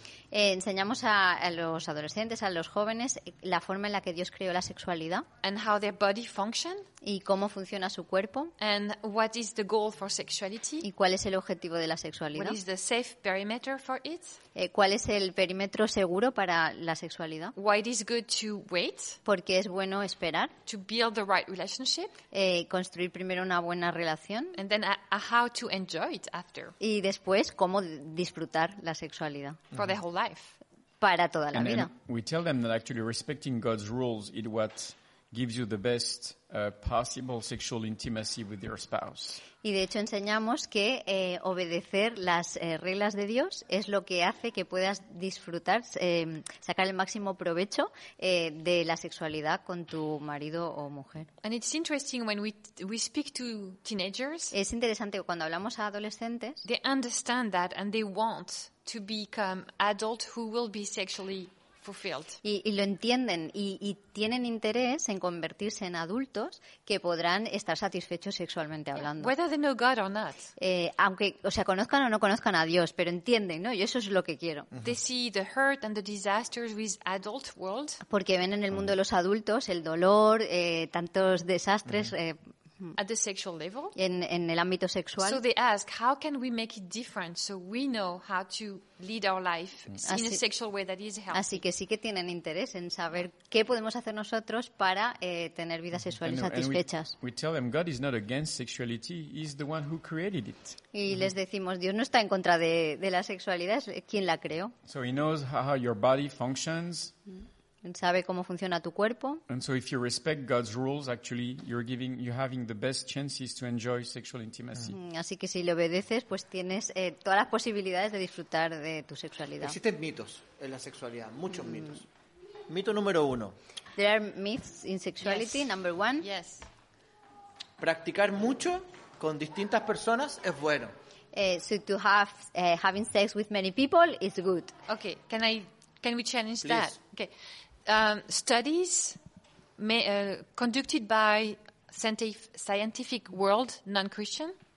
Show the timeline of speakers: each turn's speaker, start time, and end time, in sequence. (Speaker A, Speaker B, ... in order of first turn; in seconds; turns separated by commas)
Speaker A: 0.3-5.3, Speaker B: 5.4-6.9, Speaker A: 7.0-8.5, Speaker B: 8.6-10.9, Speaker A: 10.8-12.6, Speaker B: 12.3-14.4, Speaker A: 14.6-17.5, Speaker B: 17.6-19.2, Speaker A: 19.2-20.5, Speaker B: 20.7-22.2, Speaker A: 22.3-24.6, Speaker B: 24.6-26.8, Speaker A: 26.8-29.6, Speaker B: 29.7-30.6, Speaker A: 31.0-31.9, Speaker C: 31.5-39.4, Speaker A: 39.6-51.3, Speaker B: 51.4-54.5, Speaker A: 54.5-56.6, Speaker B: 56.6-62.4, Speaker A: 62.4-69.3, Speaker B: 69.0-70.5, Speaker A: 70.6-74.7, Speaker B: 74.8-78.0, Speaker A: 78.0-83.0, Speaker B: 83.0-84.0, Speaker A: 84.0-85.4, Speaker B: 85.2-91.6, Speaker A: 90.1-90.4, Speaker A: 91.3-97.2, Speaker C: 96.2-100.8, Speaker A: 100.9-104.7, Speaker C: 104.9-107.2, Speaker A: 107.8-109.4, Speaker C: 109.5-115.0, Speaker A: 114.9-119.8, Speaker D: 119.6-122.0, Speaker D: 122.7-123.5, Speaker A: 124.0-126.3, Speaker B: 125.2-125.7, Speaker B: 126.2-126.7, Speaker D: 127.8-130.9, Speaker A: 131.3-134.7, Speaker B: 134.9-137.3, Speaker D: 136.7-136.9, Speaker B: 137.8-139.2, Speaker B: 139.8-144.6